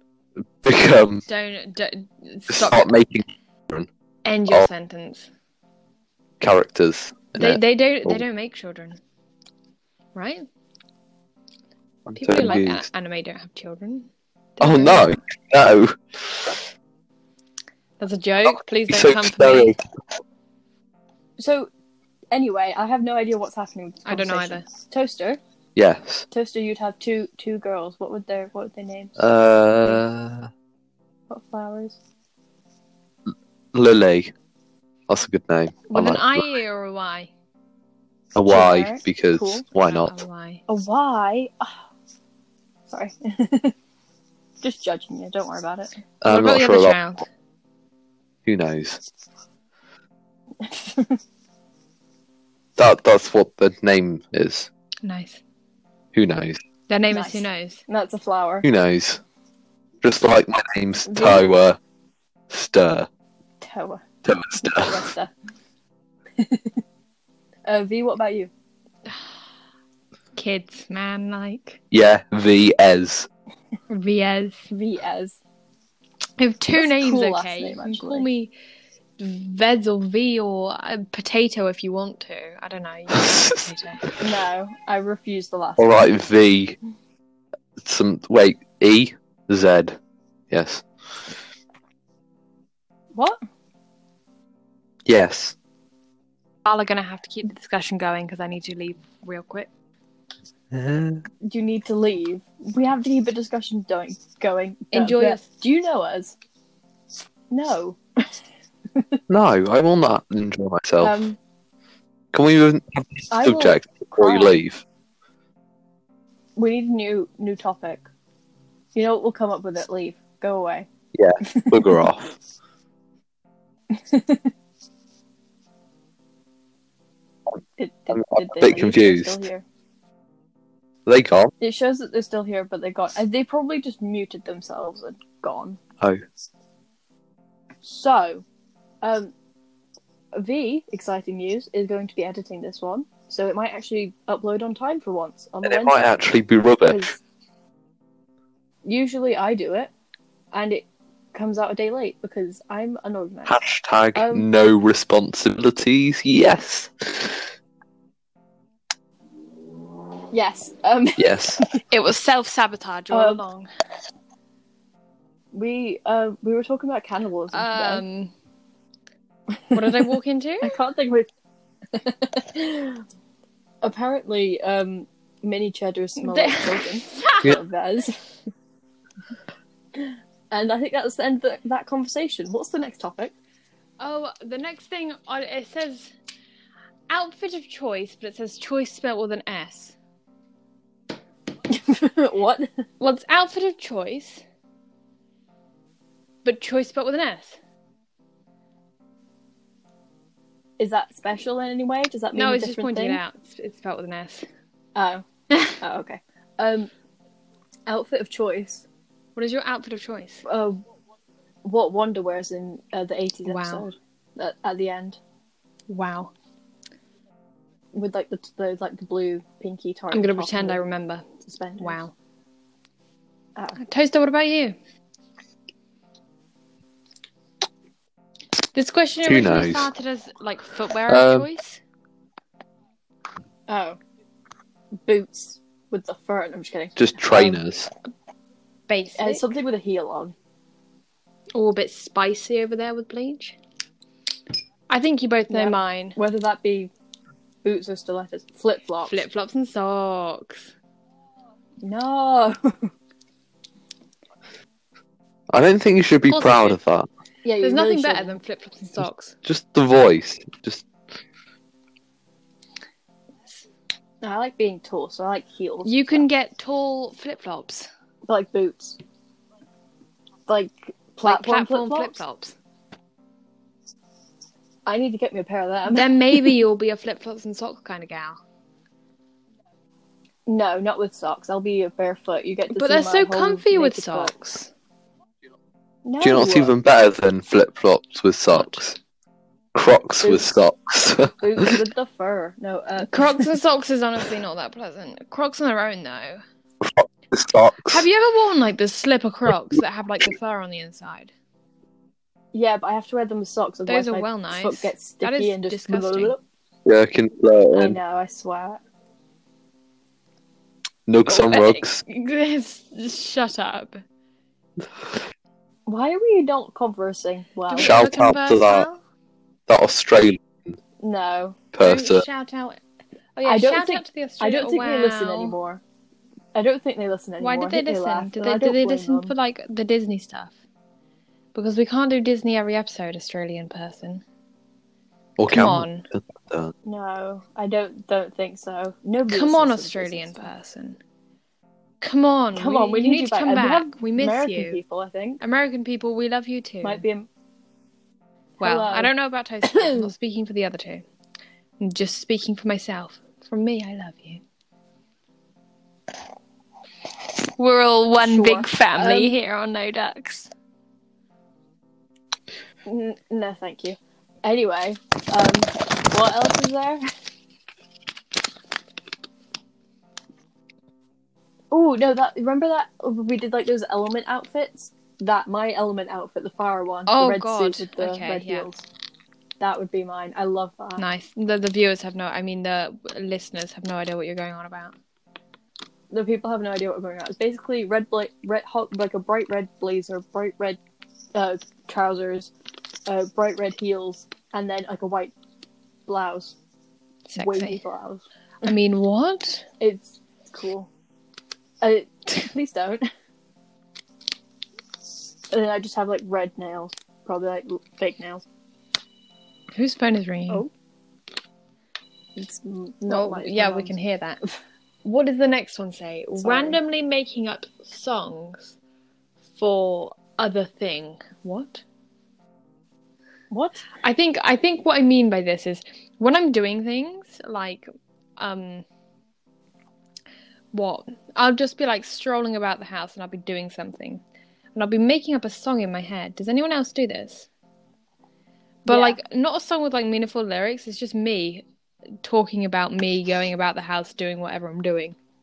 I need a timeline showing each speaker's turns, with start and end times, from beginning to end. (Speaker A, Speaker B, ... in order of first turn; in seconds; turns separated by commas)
Speaker A: 0.6-1.2, Speaker B: 1.3-2.9, Speaker A: 2.5-3.9, Speaker B: 4.2-5.3, Speaker A: 6.4-8.2, Speaker B: 7.3-9.0, Speaker B: 10.1-10.4, Speaker A: 12.1-12.8, Speaker B: 12.2-15.2, Speaker A: 14.6-16.6, Speaker B: 18.0-19.7, Speaker A: 18.4-19.8, Speaker C: 21.4-21.7, Speaker C: 22.3-25.4, Speaker B: 24.1-24.7, Speaker A: 25.8-26.2, Speaker C: 26.3-29.2, Speaker A: 29.2-30.5, Speaker C: 31.3-32.0, Speaker A: 33.7-34.3, Speaker A: 35.1-36.5, Speaker B: 35.9-37.3, Speaker A: 38.3-40.2, Speaker C: 38.5-39.6, Speaker B: 39.8-40.6, Speaker C: 40.7-41.7, Speaker C: 42.9-43.7, Speaker C: 44.6-45.9, Speaker A: 46.2-47.0, Speaker B: 46.2-47.2, Speaker A: 48.4-49.0, Speaker C: 50.6-51.2, Speaker A: 52.8-54.7, Speaker B: 55.0-55.4, Speaker A: 56.1-56.6, Speaker B: 56.9-57.8, Speaker C: 57.1-58.6, Speaker A: 58.6-59.2, Speaker A: 60.0-61.8, Speaker C: 61.0-61.5, Speaker A: 62.5-63.1, Speaker C: 63.6-64.0, Speaker A: 64.2-65.0, Speaker C: 64.6-65.3, Speaker C: 66.4-66.8, Speaker C: 67.7-68.5, Speaker B: 70.3-71.8, Speaker A: 71.9-73.3, Speaker B: 73.9-74.7, Speaker C: 74.7-75.4, Speaker B: 76.4-78.5, Speaker C: 76.8-78.3, Speaker B: 79.2-84.1, Speaker A: 83.1-83.6, Speaker C: 84.2-86.0, Speaker A: 85.8-86.8, Speaker A: 87.8-90.0, Speaker A: 90.5-90.8, Speaker A: 95.0-95.5, Speaker B: 96.6-99.7, Speaker A: 100.7-101.2, Speaker C: 101.4-106.3, Speaker B: 104.9-105.5, Speaker C: 107.5-108.3, Speaker A: 109.3-111.2, Speaker C: 111.0-111.4, Speaker A: 112.3-114.8, Speaker C: 113.3-114.6, Speaker C: 116.5-118.1, Speaker C: 118.9-120.9, Speaker A: 121.1-122.3, Speaker C: 121.5-122.0, Speaker C: 123.9-124.5, Speaker C: 127.8-129.6, Speaker A: 128.1-129.4, Speaker A: 131.1-131.5, Speaker C: 131.6-135.8, Speaker C: 137.8-138.4, Speaker C: 139.0-139.3, Speaker C: 140.3-146.0, Speaker A: 145.6-147.1, Speaker C: 146.8-147.2, Speaker C: 148.8-149.9, Speaker C: 150.5-153.6, Speaker A: 153.4-157.5, Speaker C: 154.1-154.4, Speaker C: 160.3-161.8, Speaker A: 161.2-161.6, Speaker B: 161.9-163.7, Speaker C: 163.1-163.4, Speaker C: 165.5-168.0, Speaker B: 167.5-168.3, Speaker C: 169.7-171.3, Speaker B: 169.7-170.8, Speaker C: 171.9-173.0, Speaker C: 173.8-178.2, Speaker B: 176.2-177.5, Speaker C: 180.5-183.3, Speaker B: 184.0-186.1, Speaker B: 187.1-189.9, Speaker C: 191.7-192.7, Speaker B: 193.0-194.4, Speaker B: 196.4-197.6, Speaker C: 200.8-203.2, Speaker B: 202.3-204.5, Speaker C: 204.9-206.9, Speaker C: 207.9-208.8, Speaker B: 209.3-210.4, Speaker C: 210.4-210.8, Speaker C: 211.6-215.2, Speaker B: 213.4-213.8, Speaker B: 215.9-216.3, Speaker C: 217.9-220.8, Speaker B: 220.1-221.3, Speaker C: 221.4-222.0, Speaker B: 221.8-222.1, Speaker B: 223.8-224.8, Speaker B: 228.6-231.8, Speaker A: 229.2-229.9, Speaker A: 231.1-231.5, Speaker C: 233.7-234.0, Speaker C: 235.0-237.6, Speaker A: 237.0-237.9, Speaker B: 238.9-239.4, Speaker C: 239.2-240.3, Speaker B: 241.5-243.6, Speaker B: 244.9-246.2, Speaker C: 245.5-246.9, Speaker C: 247.6-249.2, Speaker B: 249.1-250.7, Speaker C: 251.8-252.9, Speaker A: 255.5-257.1, Speaker B: 256.2-256.8, Speaker C: 257.4-258.4, Speaker B: 257.6-259.4, Speaker A: 259.4-260.8, Speaker C: 264.2-266.2, Speaker B: 265.8-267.9, Speaker C: 268.3-269.0, Speaker C: 270.5-272.2, Speaker B: 271.2-272.5, Speaker C: 274.9-276.6, Speaker B: 275.9-278.4, Speaker C: 280.5-284.3, Speaker B: 282.7-284.7, Speaker C: 286.0-286.7, Speaker A: 286.2-288.9, Speaker B: 288.5-288.8, Speaker A: 289.7-291.8, Speaker C: 290.2-290.5, Speaker C: 291.4-293.4, Speaker B: 293.1-296.4, Speaker A: 296.8-298.0, Speaker B: 297.9-301.3, Speaker C: 302.5-306.4, Speaker B: 303.9-306.3, Speaker A: 306.9-308.0, Speaker C: 307.7-308.8, Speaker A: 311.1-312.0, Speaker B: 311.3-314.0, Speaker C: 315.9-318.0, Speaker B: 317.7-319.0, Speaker A: 317.8-318.9, Speaker A: 319.7-320.8, Speaker C: 321.0-321.6, Speaker A: 321.7-322.2, Speaker B: 321.8-322.8, Speaker B: 323.4-325.5, Speaker C: 323.4-325.8, Speaker C: 326.5-329.3, Speaker B: 327.4-330.5, Speaker B: 331.5-334.2, Speaker A: 335.4-336.7, Speaker B: 335.5-336.1, Speaker C: 336.8-340.5, Speaker B: 339.3-341.0, Speaker B: 342.0-344.8, Speaker C: 342.6-345.4, Speaker B: 345.4-347.0, Speaker C: 346.8-347.3, Speaker C: 348.6-349.1, Speaker B: 348.6-351.0, Speaker C: 349.7-350.1, Speaker B: 351.8-354.4, Speaker B: 357.6-360.5, Speaker C: 358.1-359.3, Speaker C: 362.9-367.0, Speaker C: 371.7-378.8, Speaker B: 377.1-378.7, Speaker C: 379.6-381.0, Speaker B: 381.0-384.9, Speaker C: 386.1-390.8, Speaker C: 391.3-392.5, Speaker C: 393.1-395.3, Speaker C: 396.1-396.6, Speaker B: 397.3-397.8, Speaker C: 397.4-398.7, Speaker B: 398.6-399.7, Speaker C: 399.8-400.9, Speaker C: 401.8-403.1, Speaker C: 405.5-408.4, Speaker B: 409.7-410.6, Speaker C: 412.4-413.9, Speaker B: 413.1-414.4, Speaker B: 415.0-418.7, Speaker C: 416.4-416.8, Speaker B: 419.6-421.8, Speaker C: 423.5-423.9, Speaker B: 424.0-427.9, Speaker B: 428.4-428.8, Speaker B: 430.7-434.2, Speaker B: 434.7-437.5, Speaker C: 438.9-439.2, Speaker B: 438.9-441.6, Speaker B: 442.2-445.1